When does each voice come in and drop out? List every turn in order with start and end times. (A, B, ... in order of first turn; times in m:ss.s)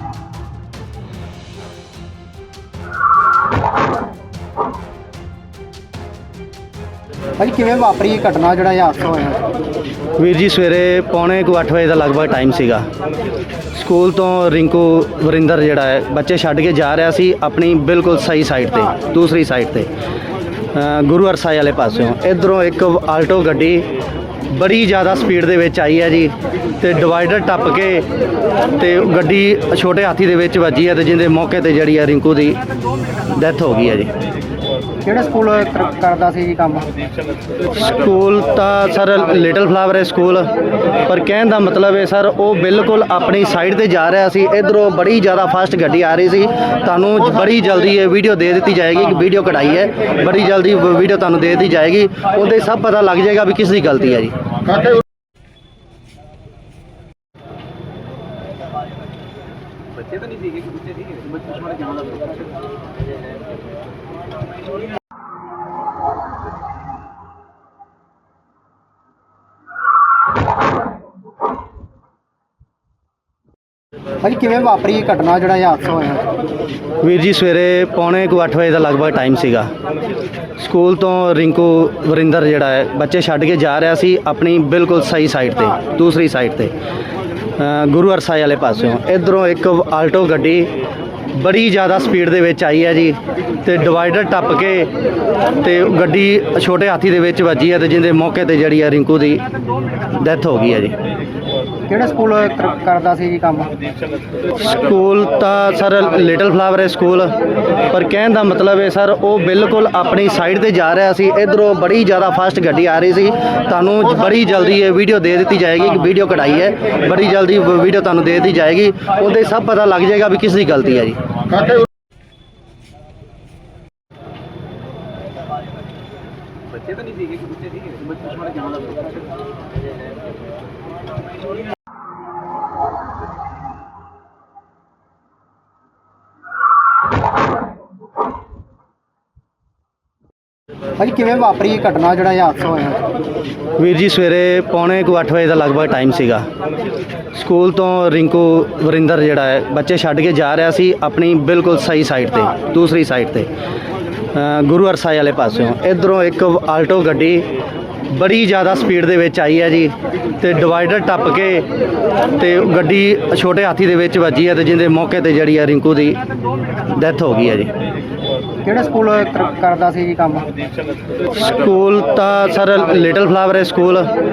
0:07.4-0:09.4 A
0:10.2-0:12.9 B
0:13.7-0:19.9 B
0:20.7-0:23.9 B
0:24.5-0:28.1 B
0:28.7-0:32.6 B
0:33.3-0:34.1 B
0:35.0-0:36.9 A
0:37.7-0:40.5 B
0:41.0-0:54.4 B
1:00.1-1:02.3 C
1:14.2-1:16.3 A
1:17.0-1:19.7 B
1:20.6-1:26.7 B
1:27.6-1:30.7 B
1:31.3-1:34.9 B
1:35.6-1:39.4 B
1:40.1-1:41.0 B
1:41.9-1:43.7 A
1:44.5-1:47.4 B
1:47.9-2:01.2 B
2:06.9-2:09.0 C
2:21.0-2:23.0 A
2:23.8-2:26.5 B
2:27.3-2:33.5 B
2:34.3-2:37.5 B
2:38.1-2:41.7 B
2:42.3-2:46.2 B
2:46.8-2:47.7 B
2:48.6-2:50.5 A
2:51.3-2:54.1 B